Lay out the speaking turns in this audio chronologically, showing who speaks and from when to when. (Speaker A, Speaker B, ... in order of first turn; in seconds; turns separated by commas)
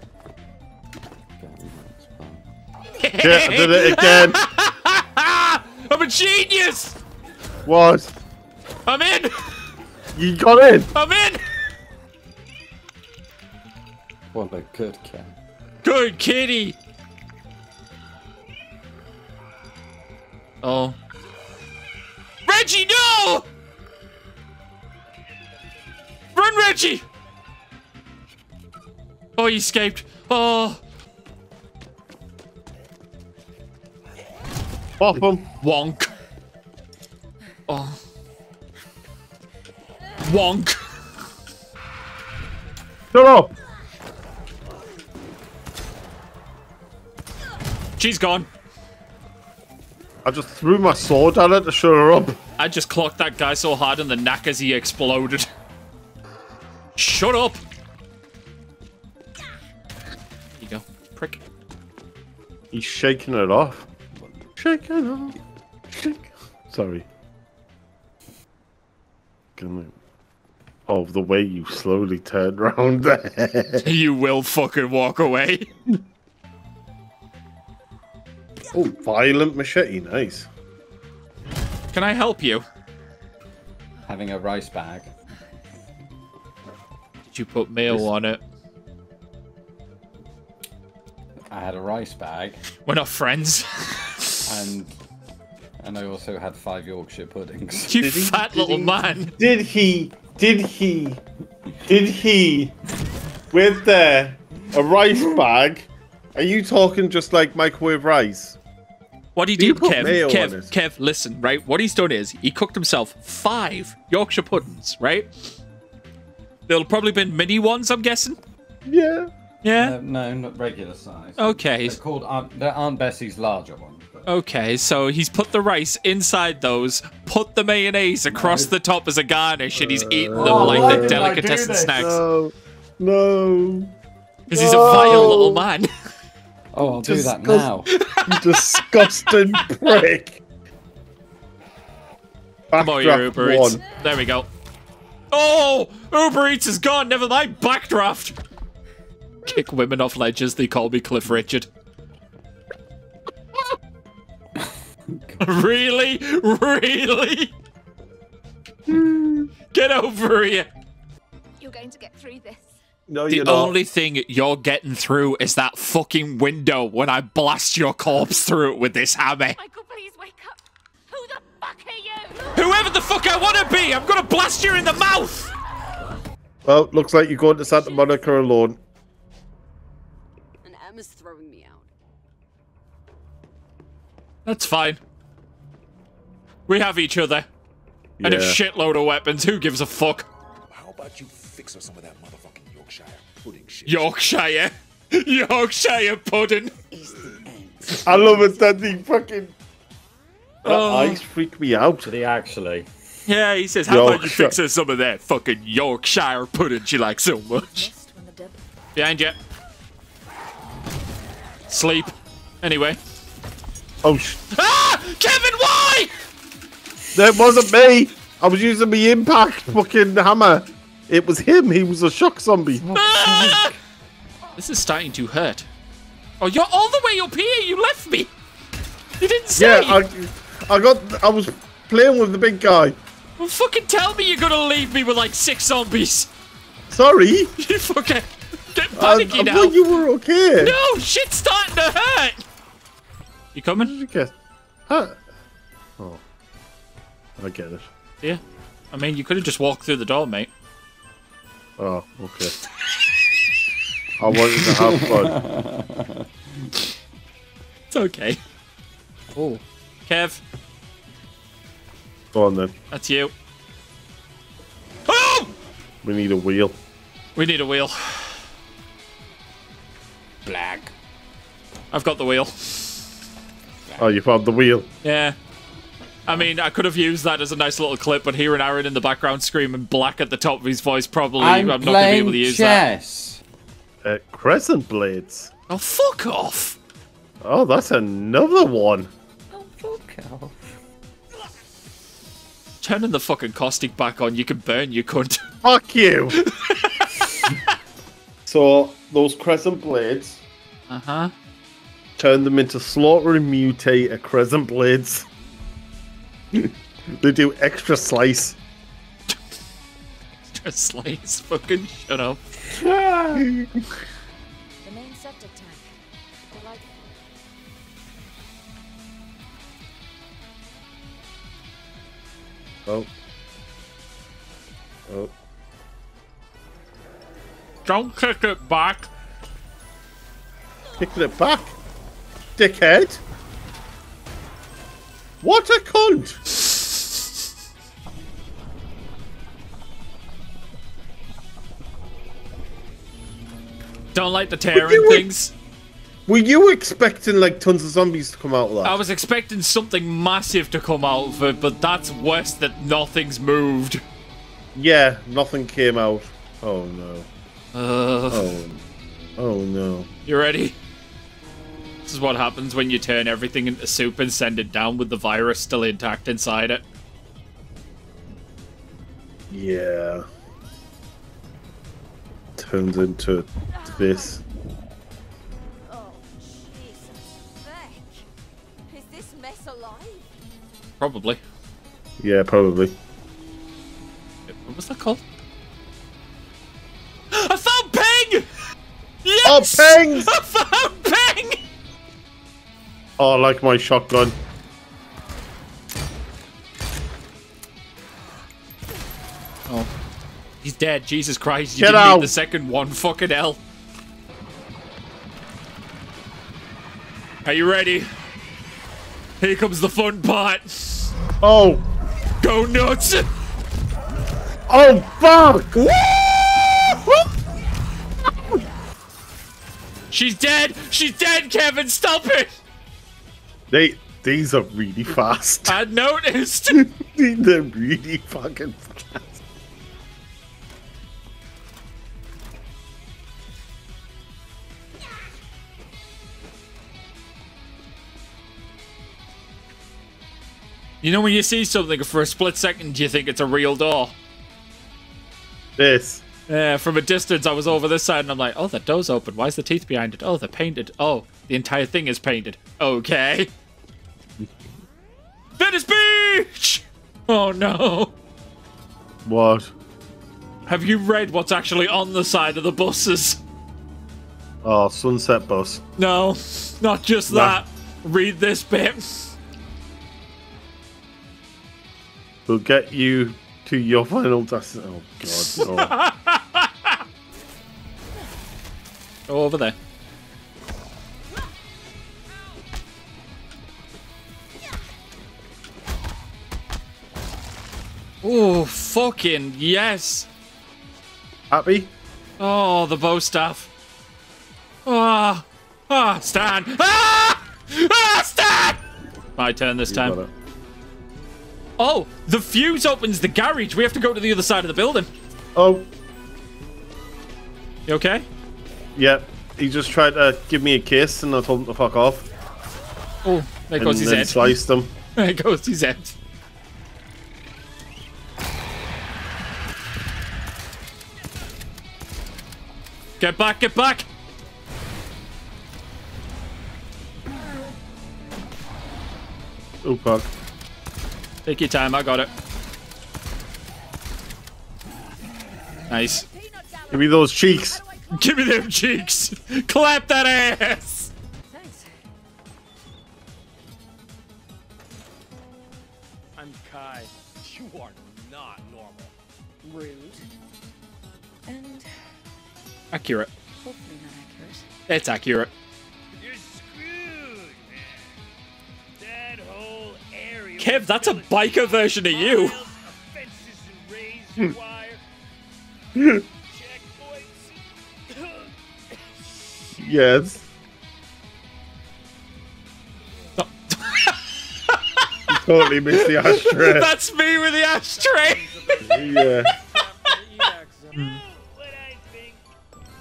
Speaker A: 1.4-2.5, Speaker B: 3.0-7.0, Speaker C: 3.2-4.4, Speaker C: 7.7-8.1, Speaker B: 8.9-9.3, Speaker C: 10.2-10.9, Speaker B: 10.9-11.4, Speaker A: 14.3-15.3, Speaker B: 15.8-16.8, Speaker B: 20.6-21.0, Speaker B: 22.5-23.5, Speaker B: 26.4-27.1, Speaker B: 29.4-30.8, Speaker C: 35.0-35.5, Speaker B: 35.6-36.1, Speaker B: 37.7-38.0, Speaker B: 40.2-40.8, Speaker C: 43.1-43.5, Speaker B: 48.0-48.5, Speaker C: 50.2-52.4, Speaker B: 52.6-55.5, Speaker B: 57.0-57.6, Speaker B: 60.5-61.4, Speaker C: 62.7-63.9, Speaker C: 64.6-65.4, Speaker C: 65.9-67.1, Speaker C: 69.6-69.9, Speaker C: 70.9-73.8, Speaker B: 73.8-75.7, Speaker C: 78.7-80.5, Speaker B: 81.9-82.7, Speaker A: 84.1-85.1, Speaker B: 87.3-88.4, Speaker A: 91.5-92.6, Speaker B: 92.8-94.5, Speaker A: 94.5-94.9, Speaker A: 95.8-98.0, Speaker B: 97.9-99.3, Speaker C: 98.0-101.2, Speaker C: 101.8-102.8, Speaker C: 103.5-108.6, Speaker B: 109.3-115.5, Speaker C: 109.6-110.7, Speaker B: 116.7-118.4, Speaker C: 118.9-119.3, Speaker B: 119.6-120.0, Speaker A: 119.8-124.3, Speaker B: 121.4-122.0, Speaker B: 124.3-132.2, Speaker A: 128.3-128.7, Speaker C: 130.3-131.2, Speaker A: 130.3-132.1, Speaker C: 131.9-133.9, Speaker C: 134.5-135.7, Speaker B: 134.5-135.9, Speaker A: 136.7-137.9, Speaker C: 136.9-140.4, Speaker B: 137.9-140.0, Speaker C: 142.7-143.8, Speaker B: 142.8-144.5, Speaker B: 145.3-148.4, Speaker B: 149.4-151.7, Speaker A: 155.1-155.5, Speaker B: 155.4-157.5, Speaker B: 159.7-160.7, Speaker D: 161.6-161.9, Speaker E: 162.2-162.4, Speaker C: 163.1-163.8, Speaker B: 163.3-169.6, Speaker D: 169.6-170.5, Speaker D: 171.1-172.4, Speaker B: 172.5-175.5, Speaker C: 176.7-178.8, Speaker E: 177.6-178.2, Speaker E: 180.9-181.6, Speaker B: 184.4-185.0, Speaker B: 186.7-187.5, Speaker C: 188.2-188.6, Speaker B: 188.2-190.3, Speaker F: 190.7-194.1, Speaker B: 193.9-196.7, Speaker A: 196.9-198.5, Speaker C: 198.0-199.5, Speaker B: 200.6-201.2, Speaker C: 200.6-202.1, Speaker A: 202.0-202.9, Speaker B: 203.3-207.9, Speaker C: 203.9-204.6, Speaker E: 207.6-208.6, Speaker B: 208.9-209.4, Speaker B: 211.7-213.0, Speaker C: 214.0-214.4, Speaker B: 214.5-216.1, Speaker C: 217.1-222.9, Speaker A: 222.8-223.7, Speaker B: 222.9-223.7, Speaker B: 224.6-225.7, Speaker B: 226.4-228.3, Speaker B: 229.2-230.0, Speaker C: 229.6-233.0, Speaker B: 233.4-236.3, Speaker C: 236.9-237.5, Speaker B: 237.6-239.8, Speaker C: 239.0-240.8, Speaker B: 240.6-242.4, Speaker B: 243.6-243.9, Speaker C: 243.8-244.3, Speaker C: 244.9-245.2, Speaker C: 247.4-247.9, Speaker B: 248.9-250.5, Speaker C: 251.8-252.5, Speaker C: 254.2-255.4, Speaker A: 254.3-256.8, Speaker B: 257.9-258.4, Speaker B: 259.4-260.4, Speaker C: 262.3-262.7, Speaker B: 262.9-263.3, Speaker B: 265.1-265.5, Speaker C: 266.0-266.8, Speaker B: 267.4-268.4, Speaker A: 270.4-270.9, Speaker B: 271.9-273.1, Speaker C: 274.0-274.9, Speaker B: 275.0-275.4, Speaker B: 276.3-282.8, Speaker A: 281.4-283.4, Speaker C: 284.0-285.5, Speaker B: 285.7-286.8, Speaker C: 287.4-289.1, Speaker A: 289.5-290.6, Speaker B: 292.8-295.4, Speaker C: 295.6-296.4, Speaker B: 296.4-297.6, Speaker C: 298.4-300.4, Speaker B: 300.9-301.3, Speaker C: 302.2-305.2, Speaker C: 306.5-308.6, Speaker B: 310.5-312.4, Speaker A: 312.7-313.5, Speaker C: 313.3-313.7, Speaker E: 314.8-315.9, Speaker E: 316.5-317.1, Speaker C: 325.1-325.3, Speaker B: 327.9-329.1, Speaker C: 331.0-331.8, Speaker C: 332.6-333.2, Speaker C: 335.4-336.4, Speaker B: 344.1-345.5, Speaker C: 344.7-345.3, Speaker C: 346.3-349.0, Speaker B: 348.8-354.0, Speaker C: 354.8-357.3, Speaker B: 357.7-358.6, Speaker C: 358.3-358.8, Speaker C: 359.4-360.1, Speaker B: 360.3-360.8, Speaker B: 362.1-366.8, Speaker C: 369.5-370.3, Speaker C: 372.6-374.4, Speaker E: 373.7-374.4, Speaker E: 375.8-378.2, Speaker E: 378.9-380.3, Speaker B: 381.0-381.4, Speaker C: 382.2-382.9, Speaker B: 384.5-385.2, Speaker B: 387.3-388.5, Speaker B: 389.2-391.6, Speaker C: 389.4-390.3, Speaker C: 393.2-394.4, Speaker B: 400.6-403.6, Speaker C: 401.8-402.3, Speaker B: 407.4-408.1, Speaker B: 409.4-411.1, Speaker C: 411.4-411.9, Speaker B: 412.4-413.3, Speaker C: 414.7-415.8, Speaker B: 415.8-417.1, Speaker B: 420.1-422.5, Speaker C: 423.7-425.8, Speaker B: 425.7-426.8, Speaker C: 426.7-429.4, Speaker B: 441.0-444.1, Speaker C: 445.8-446.2, Speaker B: 446.5-453.5, Speaker B: 455.6-458.1, Speaker C: 459.2-459.7, Speaker B: 460.7-463.4, Speaker C: 464.6-465.8, Speaker B: 466.0-469.3, Speaker C: 467.3-467.6, Speaker C: 472.5-475.9, Speaker B: 475.4-477.0, Speaker B: 479.3-479.8, Speaker B: 488.2-490.3, Speaker C: 491.5-491.9, Speaker B: 492.4-493.7, Speaker B: 494.9-498.8, Speaker B: 499.4-500.2, Speaker C: 499.9-500.3, Speaker B: 501.8-505.1, Speaker C: 505.6-505.9, Speaker B: 507.9-508.3, Speaker C: 509.0-512.3, Speaker B: 513.2-514.6, Speaker C: 513.8-514.9, Speaker B: 515.2-516.1, Speaker B: 523.2-524.1, Speaker C: 529.8-530.3, Speaker B: 531.5-532.3, Speaker B: 535.9-536.2, Speaker E: 536.0-539.1, Speaker C: 536.9-537.8, Speaker B: 538.1-541.1, Speaker E: 541.5-541.9, Speaker G: 546.4-549.1, Speaker E: 549.6-550.2, Speaker E: 551.5-551.9, Speaker B: 552.9-553.3, Speaker E: 553.6-554.7, Speaker B: 554.9-555.5, Speaker G: 556.1-558.1, Speaker G: 559.0-565.0, Speaker B: 560.6-562.6, Speaker C: 566.0-566.2, Speaker G: 566.5-567.5, Speaker G: 568.1-568.5, Speaker C: 569.8-570.5, Speaker B: 573.4-575.1, Speaker C: 575.3-576.9, Speaker B: 575.9-578.6, Speaker G: 578.0-582.4, Speaker C: 578.8-579.5, Speaker B: 581.0-581.2